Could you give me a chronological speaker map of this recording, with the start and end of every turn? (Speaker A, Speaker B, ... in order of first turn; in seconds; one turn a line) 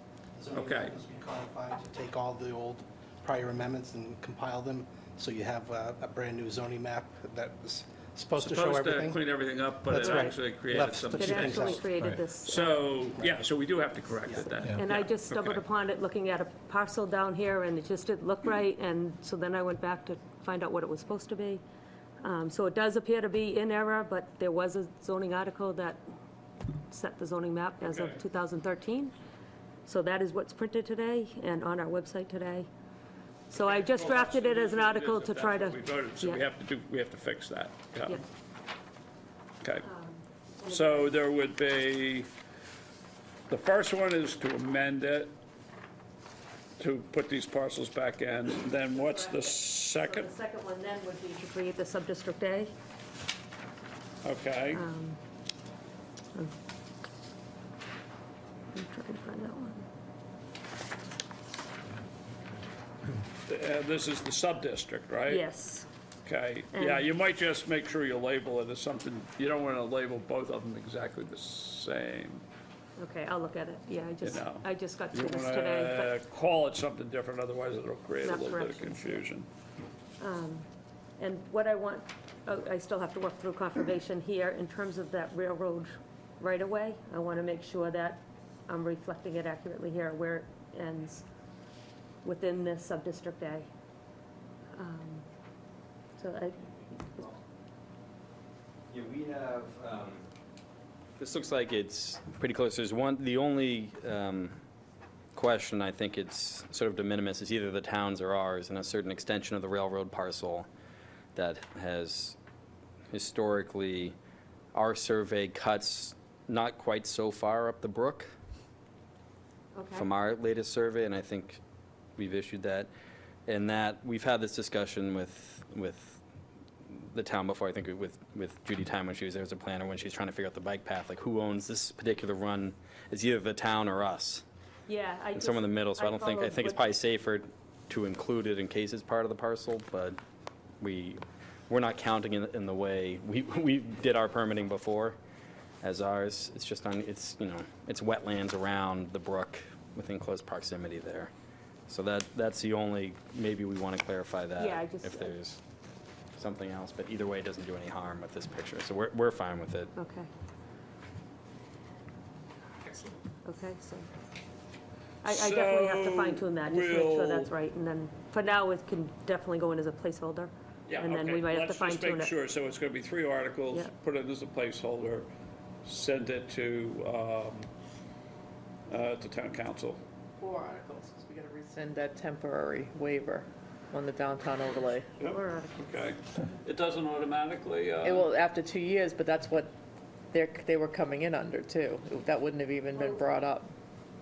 Speaker A: 0.3-9.2
Speaker B: 0.5-0.9
Speaker B: 8.4-11.9
Speaker A: 9.8-12.0
Speaker C: 11.1-12.9
Speaker B: 12.4-15.6
Speaker C: 14.6-21.6
Speaker C: 22.2-26.0
Speaker C: 26.9-29.1
Speaker B: 27.9-28.2
Speaker C: 29.9-32.7
Speaker C: 33.5-36.4
Speaker B: 33.5-38.2
Speaker C: 39.8-41.1
Speaker B: 40.7-42.3
Speaker B: 43.5-45.3
Speaker B: 46.8-50.3
Speaker C: 49.0-52.7
Speaker B: 54.2-54.8
Speaker C: 54.7-55.2
Speaker C: 58.7-59.9
Speaker B: 63.5-65.4
Speaker C: 65.3-65.9
Speaker B: 66.2-72.4
Speaker C: 66.7-67.0
Speaker C: 73.0-76.1
Speaker B: 74.2-79.5
Speaker C: 78.2-79.2
Speaker C: 80.2-80.7
Speaker C: 81.2-91.2
Speaker C: 92.2-93.7
Speaker C: 94.7-95.3
Speaker C: 96.2-97.3
Speaker D: 98.9-100.3
Speaker D: 101.2-104.6
Speaker D: 105.3-110.7
Speaker D: 111.3-112.4
Speaker D: 113.1-114.1
Speaker D: 114.7-118.3
Speaker C: 119.7-120.1
Speaker D: 119.9-121.6
Speaker D: 122.2-122.9
Speaker D: 123.5-126.2
Speaker D: 126.9-134.4
Speaker C: 134.9-136.8
Speaker D: 135.3-140.2
Speaker D: 140.8-145.2
Speaker D: 145.8-151.3
Speaker D: 151.9-155.6
Speaker C: 154.6-155.3
Speaker D: 156.3-159.9
Speaker C: 159.9-160.3
Speaker B: 162.8-163.1
Speaker C: 163.4-164.1
Speaker B: 165.2-167.5
Speaker C: 165.2-172.3
Speaker B: 170.9-175.3
Speaker B: 175.8-177.7
Speaker B: 178.9-180.0
Speaker E: 180.4-185.1
Speaker B: 185.2-188.3
Speaker C: 185.2-185.9
Speaker E: 188.0-189.7
Speaker E: 190.3-193.7
Speaker C: 192.9-193.2